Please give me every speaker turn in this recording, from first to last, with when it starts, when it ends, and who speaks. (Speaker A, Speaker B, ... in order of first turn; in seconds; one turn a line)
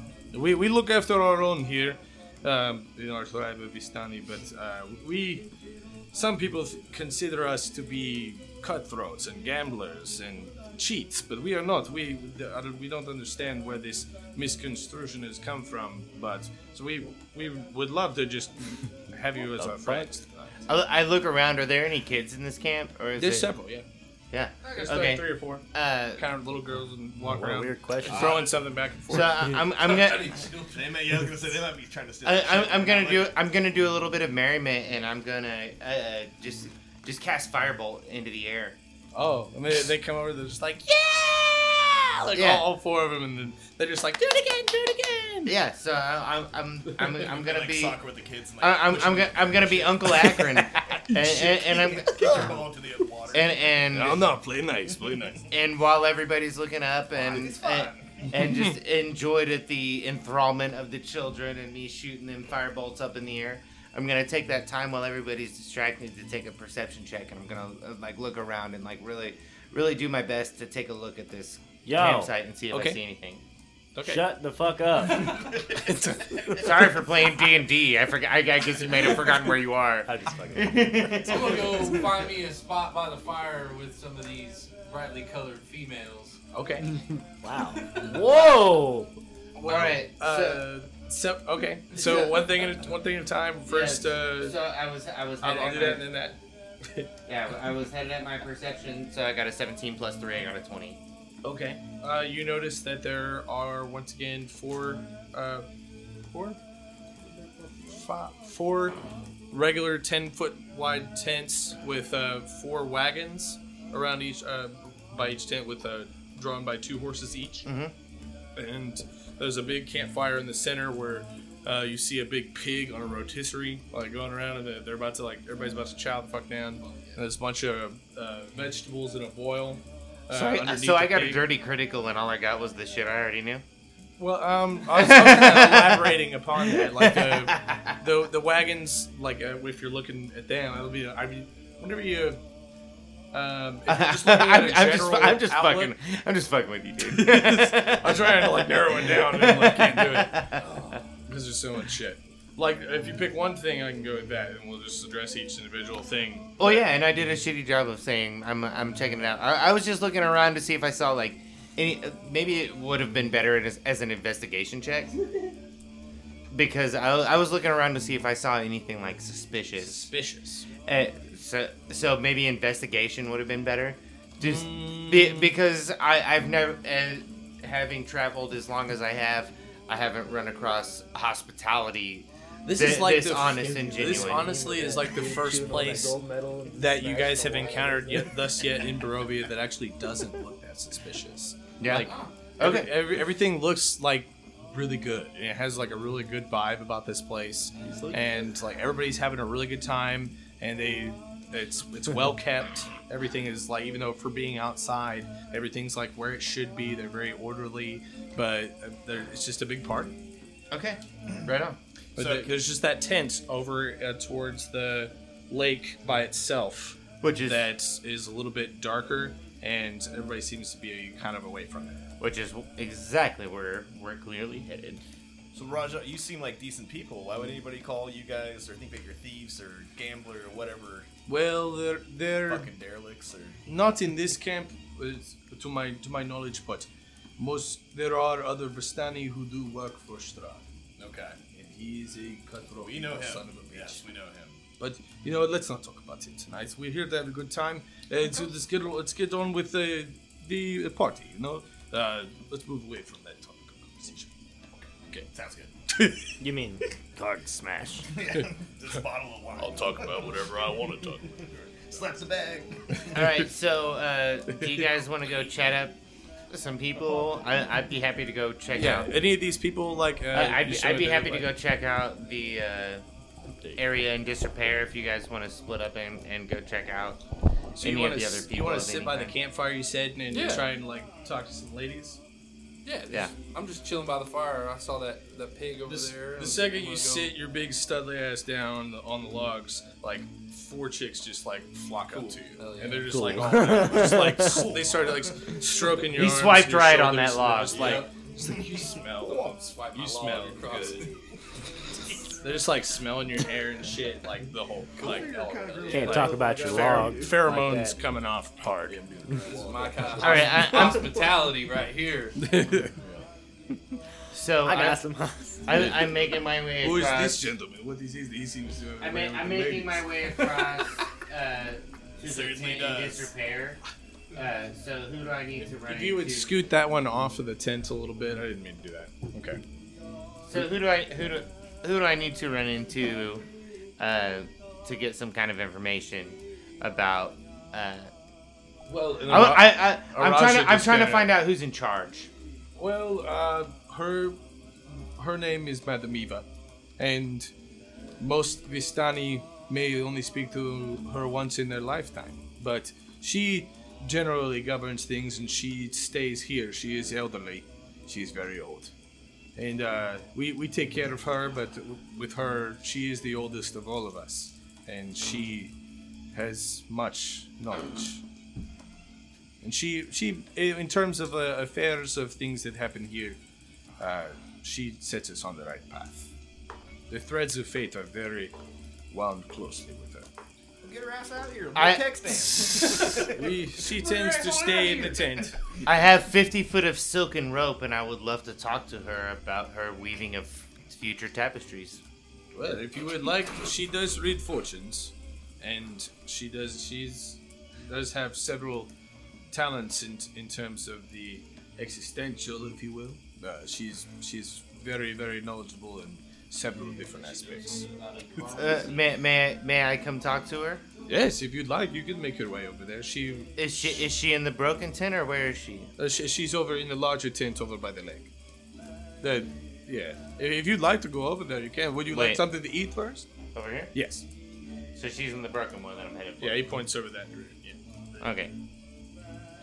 Speaker A: 0.3-5.5
Speaker A: 6.1-20.6
Speaker B: 19.5-20.1
Speaker C: 20.7-23.5
Speaker A: 23.2-23.9
Speaker C: 24.3-26.2
Speaker A: 24.6-25.6
Speaker A: 26.2-29.6
Speaker B: 27.2-28.4
Speaker D: 28.1-28.6
Speaker C: 29.1-30.4
Speaker E: 29.8-30.9
Speaker D: 30.7-33.3
Speaker C: 32.2-38.8
Speaker A: 39.1-45.5
Speaker C: 42.3-42.7
Speaker C: 45.5-48.0
Speaker D: 47.2-50.4
Speaker C: 48.6-52.6
Speaker A: 51.1-51.4
Speaker D: 51.2-53.8
Speaker C: 53.3-54.3
Speaker A: 53.9-55.5
Speaker C: 55.5-73.4
Speaker D: 57.1-58.3
Speaker A: 58.4-58.8
Speaker B: 71.8-72.3
Speaker A: 72.7-73.0
Speaker A: 73.9-74.2
Speaker B: 74.0-75.4
Speaker A: 75.2-77.0
Speaker C: 76.5-82.1
Speaker B: 80.0-81.0
Speaker E: 81.2-86.4
Speaker A: 86.5-86.9
Speaker B: 87.4-89.1
Speaker A: 89.5-94.6
Speaker C: 89.7-90.6
Speaker C: 91.9-92.6
Speaker C: 93.7-96.0
Speaker A: 95.4-97.1
Speaker C: 97.2-101.0
Speaker A: 101.4-105.7
Speaker A: 106.3-106.6
Speaker A: 107.8-109.0
Speaker A: 109.5-117.7
Speaker C: 117.6-117.9
Speaker A: 118.5-131.4
Speaker E: 126.8-127.2
Speaker C: 130.3-133.6
Speaker A: 134.2-142.4
Speaker C: 134.9-138.0
Speaker A: 143.3-145.9
Speaker C: 143.9-151.0
Speaker A: 147.0-156.9
Speaker C: 156.6-165.1
Speaker C: 166.5-170.1
Speaker A: 169.7-170.7
Speaker C: 170.8-184.7
Speaker A: 174.4-175.6
Speaker A: 182.6-186.2
Speaker B: 183.6-188.3
Speaker A: 186.7-210.2
Speaker C: 191.8-192.9
Speaker E: 192.0-192.3
Speaker B: 197.9-198.1
Speaker C: 210.7-211.8
Speaker A: 212.2-222.0
Speaker D: 212.2-212.5
Speaker C: 217.2-217.7
Speaker C: 222.2-225.0
Speaker D: 225.5-231.1
Speaker A: 231.3-232.7
Speaker D: 232.5-233.6
Speaker A: 233.7-240.6
Speaker D: 241.0-241.4
Speaker A: 241.5-244.0
Speaker D: 242.8-244.6
Speaker A: 244.8-254.3
Speaker D: 255.3-255.7
Speaker A: 255.9-256.3
Speaker B: 256.4-256.9
Speaker C: 257.2-258.0
Speaker D: 258.1-263.2
Speaker A: 259.6-261.4
Speaker A: 263.0-263.3
Speaker C: 263.1-265.9
Speaker A: 264.5-264.9
Speaker C: 266.5-269.1
Speaker A: 268.7-271.5
Speaker C: 270.3-273.0
Speaker C: 273.8-277.2
Speaker A: 277.8-282.2
Speaker C: 277.8-279.4
Speaker E: 280.3-280.6
Speaker E: 282.8-287.3
Speaker A: 285.9-301.1
Speaker E: 292.1-293.4
Speaker B: 293.1-294.7
Speaker C: 296.1-298.1
Speaker E: 297.8-298.6
Speaker E: 299.2-301.1
Speaker A: 302.4-310.7
Speaker D: 304.9-307.4
Speaker E: 305.5-305.9
Speaker B: 305.9-308.0
Speaker D: 308.9-310.8
Speaker E: 309.5-312.4
Speaker C: 310.2-311.2
Speaker A: 312.4-313.0
Speaker C: 314.3-315.0
Speaker B: 314.6-315.8
Speaker C: 315.6-317.5
Speaker A: 315.7-316.1
Speaker A: 316.8-320.8
Speaker C: 319.0-323.8
Speaker D: 322.2-323.3
Speaker C: 324.3-326.6
Speaker A: 325.8-329.6
Speaker C: 330.4-333.4
Speaker C: 334.0-338.1
Speaker A: 338.9-341.4
Speaker E: 339.0-339.5
Speaker C: 339.3-342.3
Speaker A: 342.8-346.4
Speaker A: 347.0-347.5
Speaker A: 348.2-358.9
Speaker A: 359.6-365.7
Speaker A: 366.3-368.2
Speaker A: 369.6-373.4
Speaker A: 374.0-376.3
Speaker A: 377.1-378.5
Speaker A: 379.1-380.3
Speaker D: 380.8-384.9
Speaker C: 381.7-382.5
Speaker A: 382.5-385.6
Speaker E: 384.2-385.2
Speaker C: 385.8-392.0
Speaker A: 392.5-398.9
Speaker A: 399.5-407.8
Speaker E: 407.1-409.1
Speaker C: 408.5-410.8
Speaker A: 411.1-413.5
Speaker C: 413.6-415.9
Speaker A: 416.0-418.3
Speaker A: 419.2-423.3
Speaker C: 422.1-422.4
Speaker C: 423.5-423.9
Speaker A: 423.9-424.2
Speaker C: 424.9-426.8
Speaker A: 426.4-428.2
Speaker C: 428.2-428.5